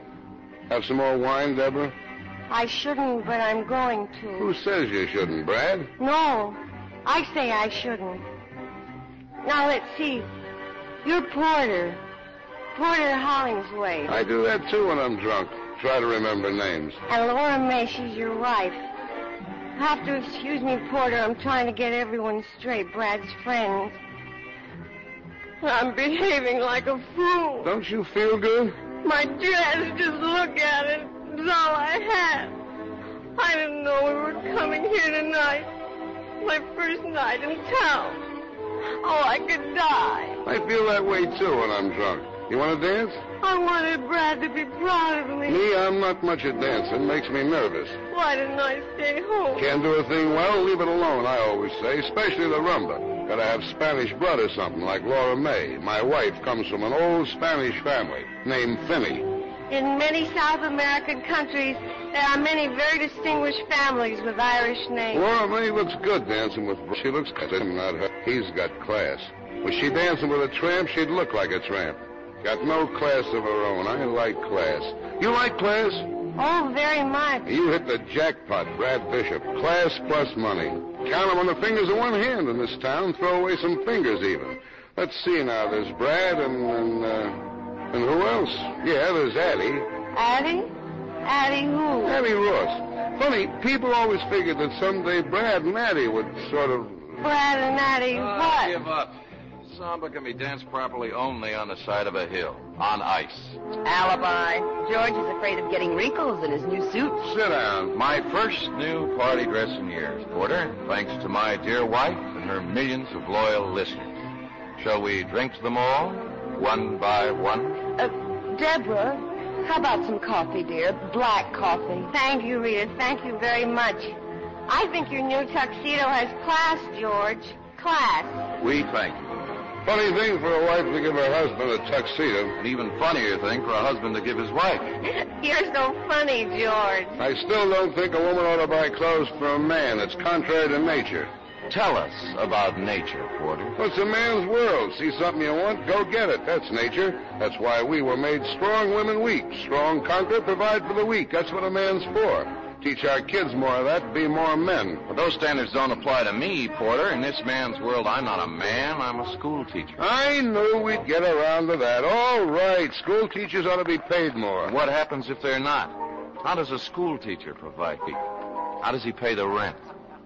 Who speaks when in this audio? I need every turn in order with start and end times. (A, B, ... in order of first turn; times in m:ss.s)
0:00.7-0:01.9 A
0:02.5-0:04.5 B
0:04.4-0:05.9 A
0:06.0-0:08.2 B
0:09.4-0:10.3 B
0:11.0-0:12.0 B
0:12.7-0:14.1 B
0:14.1-0:17.0 A
0:17.1-0:18.8 B
0:19.8-0:24.0 B
0:25.6-0:27.7 B
0:27.6-0:28.8 A
0:29.0-0:32.6 B
0:33.4-0:35.7 B
0:36.4-0:38.2 B
0:39.0-0:40.4 B
0:40.4-0:43.2 A
0:43.4-0:45.6 B
0:45.5-0:48.0 A
0:48.1-0:49.6 B
0:49.6-0:59.3 A
0:59.7-1:05.2 B
1:05.1-1:16.1 A
1:16.4-1:17.5 B
1:17.5-1:29.9 A
1:30.1-1:32.2 B
1:32.0-1:37.2 A
1:37.2-1:38.7 B
1:38.2-1:43.6 C
1:43.8-1:47.2 D
1:47.2-1:47.9 A
1:47.9-1:57.8 C
1:58.0-2:02.1 D
2:02.1-2:04.2 B
2:04.7-2:08.5 B
2:08.6-2:09.3 C
2:09.8-2:12.6 A
2:12.6-2:15.0 C
2:15.0-2:17.2 B
2:17.2-2:21.3 A
2:21.7-2:23.8 C
2:23.8-2:35.0 A
2:35.1-2:40.0 C
2:40.0-2:44.7 A
2:44.7-2:48.3 C
2:48.8-2:49.8 C